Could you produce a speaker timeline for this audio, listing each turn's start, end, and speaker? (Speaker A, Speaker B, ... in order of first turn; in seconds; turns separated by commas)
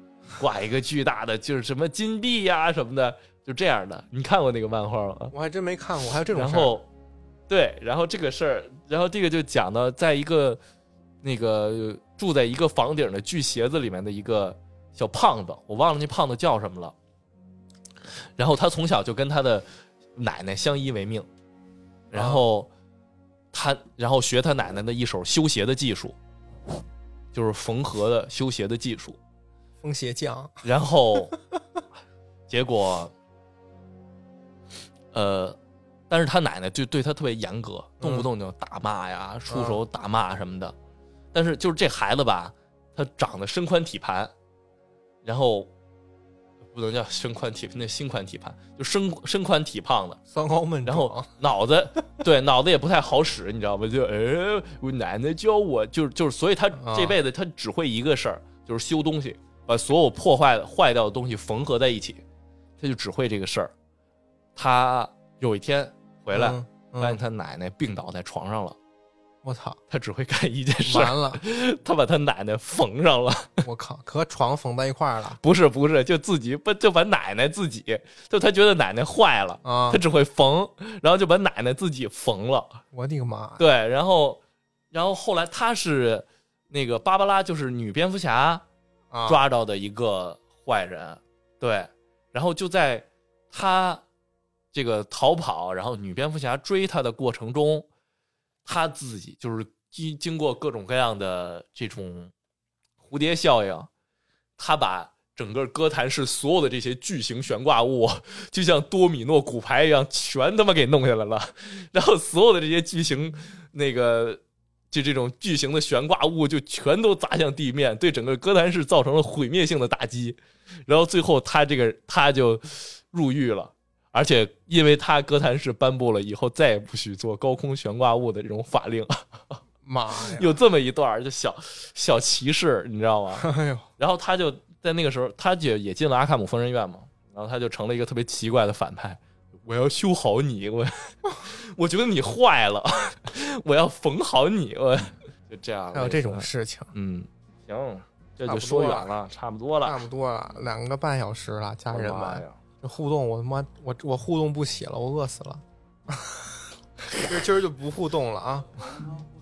Speaker A: 0.4-5.3, Speaker B: 5.3-6.8, Speaker A: 6.3-6.9, Speaker A: 7.5-10.6, Speaker A: 11.2-16.9, Speaker A: 18.4-19.6, Speaker A: 20.2-21.3, Speaker A: 22.1-22.7, Speaker B: 22.1-22.4, Speaker A: 23.5-26.1, Speaker A: 27.3-29.2, Speaker B: 29.8-31.6, Speaker A: 30.6-31.3, Speaker A: 32.5-33.1, Speaker A: 35.1-35.6, Speaker A: 36.1-40.7, Speaker B: 38.0-38.3, Speaker B: 39.5-39.8, Speaker A: 41.3-44.3, Speaker A: 45.2-45.7, Speaker A: 46.7-50.2, Speaker B: 50.3-51.3, Speaker A: 50.8-62.2, Speaker B: 56.8-57.1, Speaker A: 62.8-63.7, Speaker A: 64.5-68.8, Speaker B: 66.3-67.2, Speaker B: 69.4-69.8, Speaker A: 69.9-73.6, Speaker B: 70.8-71.4, Speaker B: 73.6-75.4, Speaker A: 75.4-82.8, Speaker B: 79.6-80.0, Speaker B: 82.9-83.6, Speaker A: 83.6-84.4, Speaker A: 84.9-88.6, Speaker B: 89.1-89.4, Speaker A: 89.2-94.0, Speaker A: 94.7-97.9, Speaker A: 98.6-102.3, Speaker A: 103.0-103.9, Speaker A: 104.6-129.6, Speaker B: 129.8-130.6, Speaker A: 130.3-150.0, Speaker B: 133.4-133.9, Speaker B: 145.9-146.9, Speaker B: 148.4-149.1, Speaker B: 149.8-156.7, Speaker A: 151.9-152.6, Speaker B: 157.2-158.8